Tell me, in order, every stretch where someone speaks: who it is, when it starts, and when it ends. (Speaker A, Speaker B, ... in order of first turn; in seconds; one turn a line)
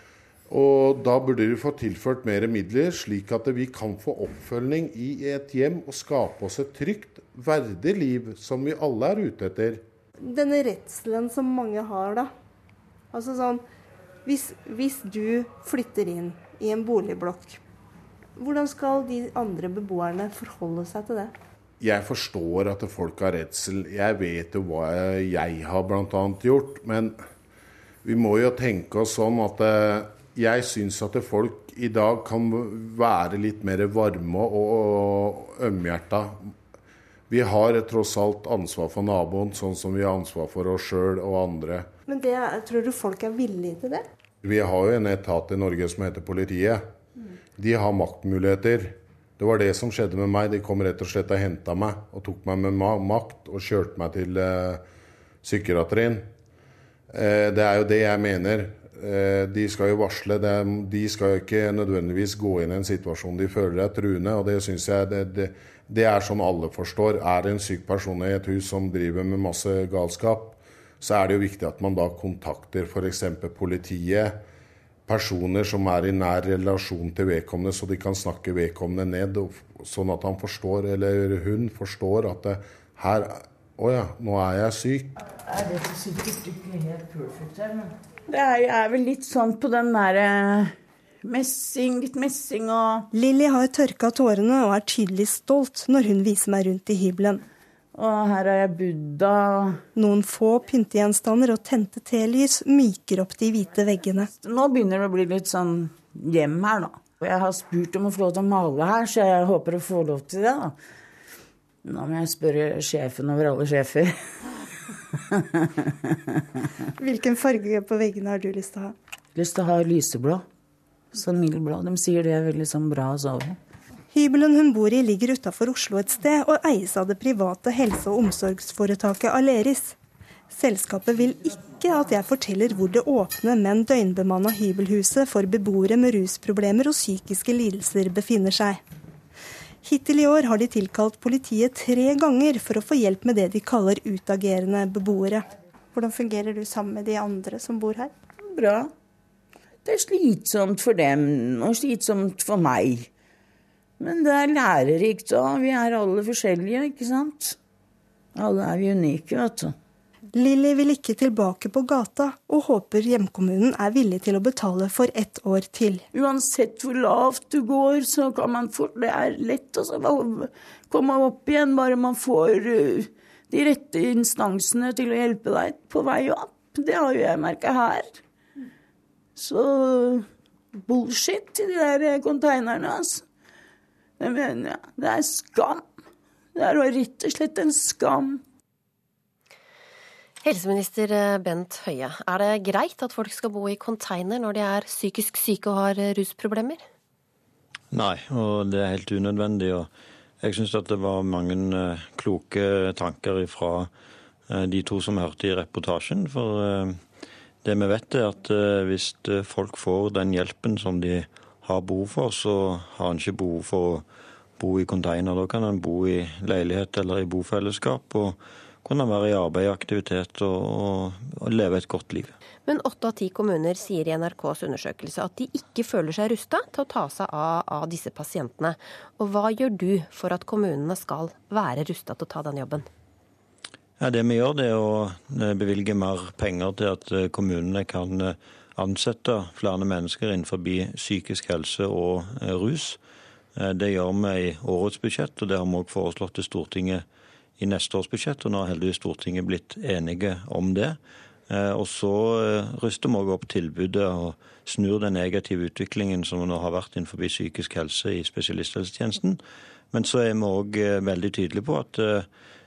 Speaker A: 0.5-9.8
Speaker B: 10.2-12.3
Speaker B: 13.1-13.6
Speaker B: 14.2-17.6
Speaker B: 18.4-21.3
Speaker A: 21.8-27.2
Speaker A: 28.0-36.5
Speaker A: 37.3-41.9
Speaker B: 42.1-44.0
Speaker A: 44.4-46.8
Speaker A: 47.6-54.8
Speaker A: 55.4-56.3
Speaker A: 57.1-74.4
Speaker A: 75.1-85.1
Speaker C: 85.4-93.1
Speaker B: 93.1-97.4
Speaker C: 97.9-99.8
Speaker B: 99.9-104.3
Speaker C: 104.4-110.7
Speaker C: 111.8-114.1
Speaker C: 115.3-116.4
Speaker B: 117.0-118.9
Speaker C: 119.3-120.4
Speaker C: 121.1-123.6
Speaker B: 124.1-129.9
Speaker B: 130.5-138.8
Speaker B: 139.8-148.1
Speaker C: 148.4-148.9
Speaker C: 149.8-153.1
Speaker C: 154.0-157.6
Speaker C: 158.3-159.7
Speaker B: 160.3-166.0
Speaker C: 166.1-178.2
Speaker C: 179.3-183.2
Speaker C: 184.2-185.8
Speaker C: 186.6-188.4
Speaker D: 190.4-196.8
Speaker E: 197.9-199.9
Speaker E: 200.4-203.9
Speaker E: 204.5-207.0
Speaker E: 207.6-214.0
Speaker E: 214.6-222.3
Speaker D: 222.7-232.9
Speaker E: 234.0-243.0
Speaker E: 243.6-247.0
Speaker E: 247.6-251.0
Speaker E: 251.5-259.4
Speaker E: 259.9-262.3